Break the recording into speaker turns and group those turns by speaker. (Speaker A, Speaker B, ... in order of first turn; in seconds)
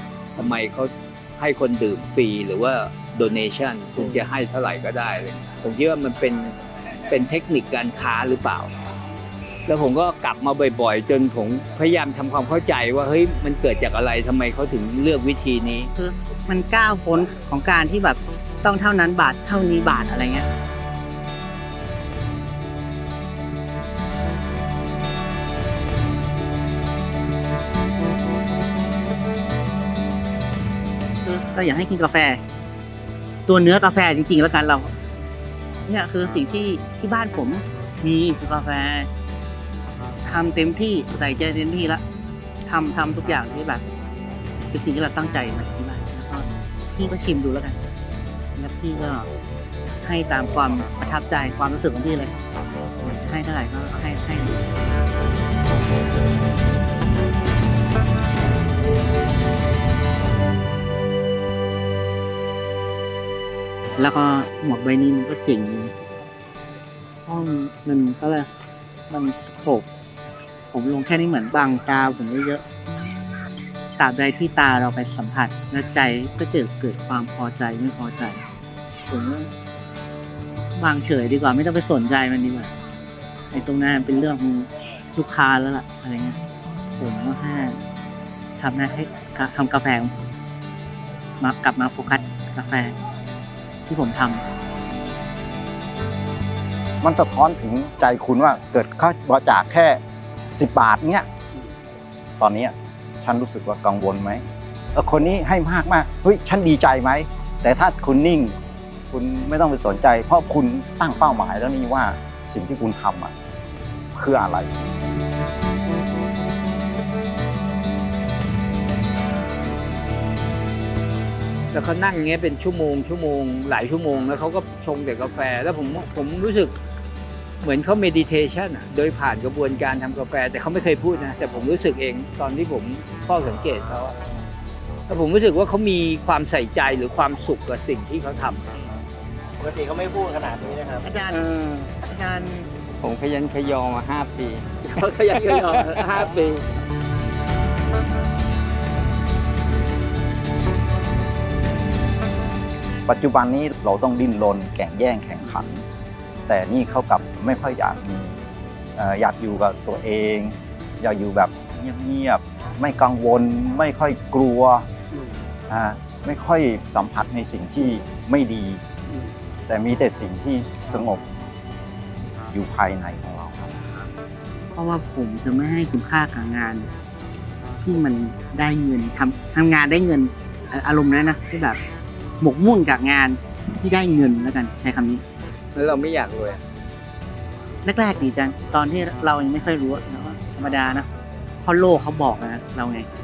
Speaker A: 0.3-6.5, 7.1-8.7, 9.7-15.9, 121.7-126.7, 127.6-134.2, 135.1-138.7, 141.3-141.9, 143.0-146.7, 185.7-186.6
Speaker B: 15.9-20.4, 31.2-32.4, 33.5-34.9, 35.9-39.1, 40.2-42.0, 42.7-43.8, 44.7-47.8, 48.6-49.3, 50.0-52.3, 53.1-54.6, 64.0-65.9, 67.2-68.5, 69.1-69.8, 70.7-72.6, 74.0-78.4, 79.1-79.5, 80.8-82.7, 83.5-86.4, 87.0-87.8, 88.6-90.1, 91.4-92.9, 93.9-94.4, 141.0-141.5, 142.0-142.7, 174.7-176.9, 177.8-181.8, 182.4-185.2, 187.8-191.1, 191.6-193.1
Speaker C: 97.0-100.0, 100.5-101.3, 102.4-108.6, 109.1-113.3, 114.1-114.7, 153.1-155.8, 156.5-158.4, 158.9-164.9, 165.7-168.8, 169.7-171.2, 172.5-174.1
Speaker D: 139.6-141.1, 145.1-146.3